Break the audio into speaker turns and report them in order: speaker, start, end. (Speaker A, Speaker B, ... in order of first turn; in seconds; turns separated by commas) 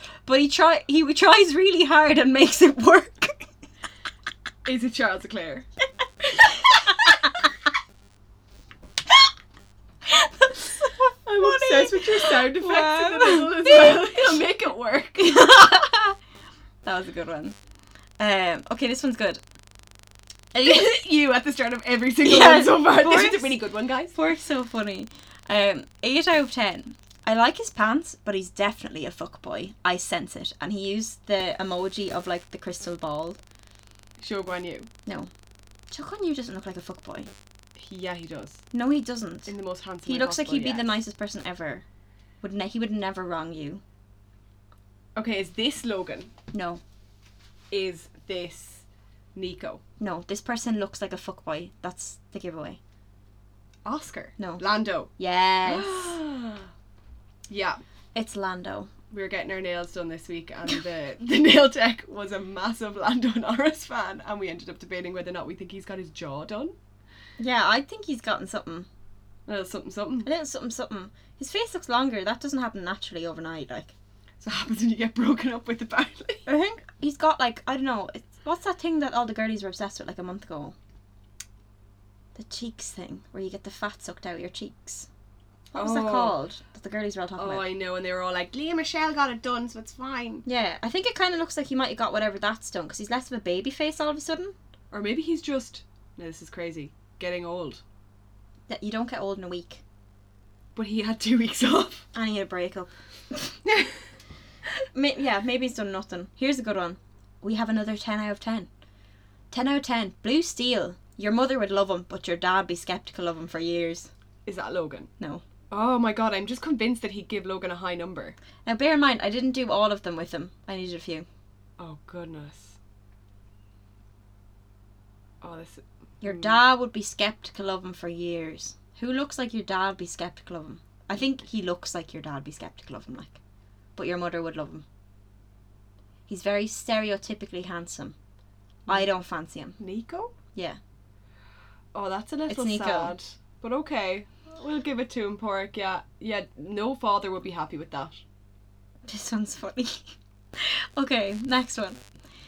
Speaker A: 0.2-3.4, Speaker B: 4.6-5.7, Speaker A: 6.3-7.5, Speaker A: 10.0-14.4, Speaker B: 11.2-15.5, Speaker A: 15.2-16.1, Speaker A: 16.8-17.6, Speaker A: 18.2-19.4, Speaker A: 20.5-21.0, Speaker B: 20.6-24.1, Speaker A: 22.2-23.6, Speaker A: 24.1-33.4, Speaker B: 34.2-34.9, Speaker A: 35.9-37.3, Speaker B: 37.8-38.6, Speaker A: 38.7-39.5, Speaker B: 39.5-40.9, Speaker A: 40.0-41.8, Speaker A: 42.4-43.8, Speaker B: 45.1-46.3, Speaker A: 46.5-46.8, Speaker B: 47.7-49.8, Speaker A: 50.0-52.8, Speaker B: 53.8-55.1, Speaker A: 54.4-54.6, Speaker A: 55.1-56.2, Speaker B: 55.6-56.7, Speaker B: 57.5-57.8, Speaker A: 58.1-58.9, Speaker B: 59.1-66.7, Speaker A: 67.4-68.9, Speaker B: 69.5-70.3, Speaker A: 70.2-73.9, Speaker B: 74.4-76.5, Speaker A: 76.5-80.8, Speaker A: 82.3-85.1, Speaker A: 85.7-87.6, Speaker B: 85.7-86.3, Speaker B: 87.4-90.4, Speaker A: 90.5-94.5, Speaker B: 94.9-97.8, Speaker A: 98.7-99.8, Speaker B: 100.8-102.1, Speaker A: 102.1-103.5, Speaker B: 103.7-103.9, Speaker A: 104.9-108.7, Speaker A: 109.5-114.1, Speaker B: 114.5-115.1, Speaker A: 115.2-115.4, Speaker B: 115.7-118.3, Speaker A: 118.6-121.3, Speaker B: 121.8-122.8, Speaker B: 125.4-126.6, Speaker A: 126.2-133.4, Speaker A: 133.9-134.8, Speaker A: 136.3-138.2, Speaker A: 138.9-139.8, Speaker B: 139.8-140.3, Speaker B: 141.9-148.2, Speaker A: 142.5-143.1, Speaker A: 149.1-152.0